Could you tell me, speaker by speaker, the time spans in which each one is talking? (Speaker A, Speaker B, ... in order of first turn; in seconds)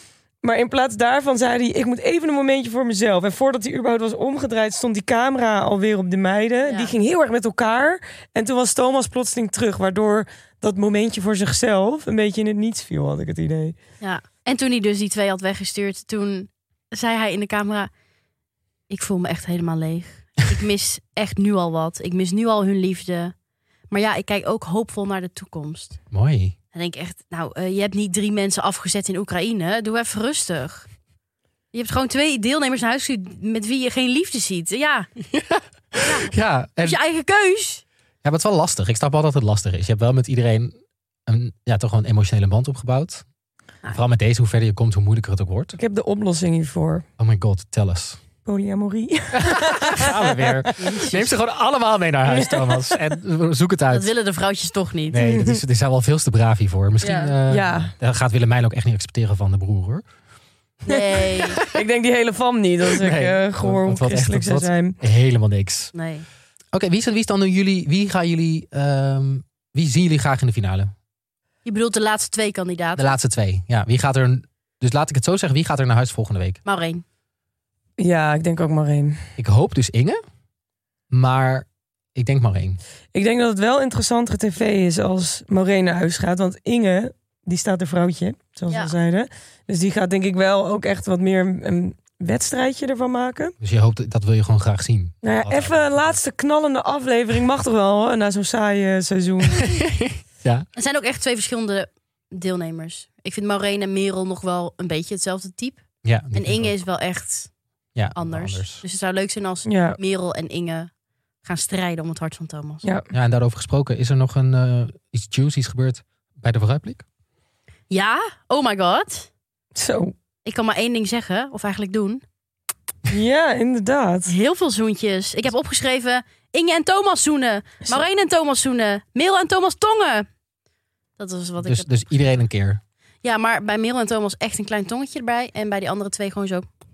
Speaker A: 0.4-13.8, 45.8-47.0, 48.5-50.7, 52.3-52.9, 55.2-55.6, 57.5-57.9, 61.6-65.0, 78.0-79.2, 83.1-93.5, 95.2-99.6, 109.7-110.0, 119.8-120.2, 123.1-124.3
Speaker B: 6.7-6.9, 14.0-17.9, 18.9-23.3, 23.9-26.0, 26.7-30.9, 31.7-35.1, 36.0-37.8, 50.8-51.3, 53.9-55.3, 57.0-57.4, 60.9-61.6, 65.9-66.3, 71.7-73.1, 76.7-77.0, 100.8-107.5, 108.2-110.9, 111.4-112.8, 117.9-119.3, 120.5-122.2, 124.3-130.3, 131.2-132.1, 133.2-136.7
Speaker C: 26.1-26.6, 35.3-37.0, 38.2-40.7, 41.3-43.2, 43.9-45.8, 47.2-48.2, 49.4-54.1, 55.1-60.0, 62.9-65.9, 66.7-70.9, 73.0-76.6, 79.4-80.2, 81.1-82.8, 93.6-96.2, 99.5-100.7, 106.0-106.7, 108.0-108.8, 113.1-117.0, 131.6-132.8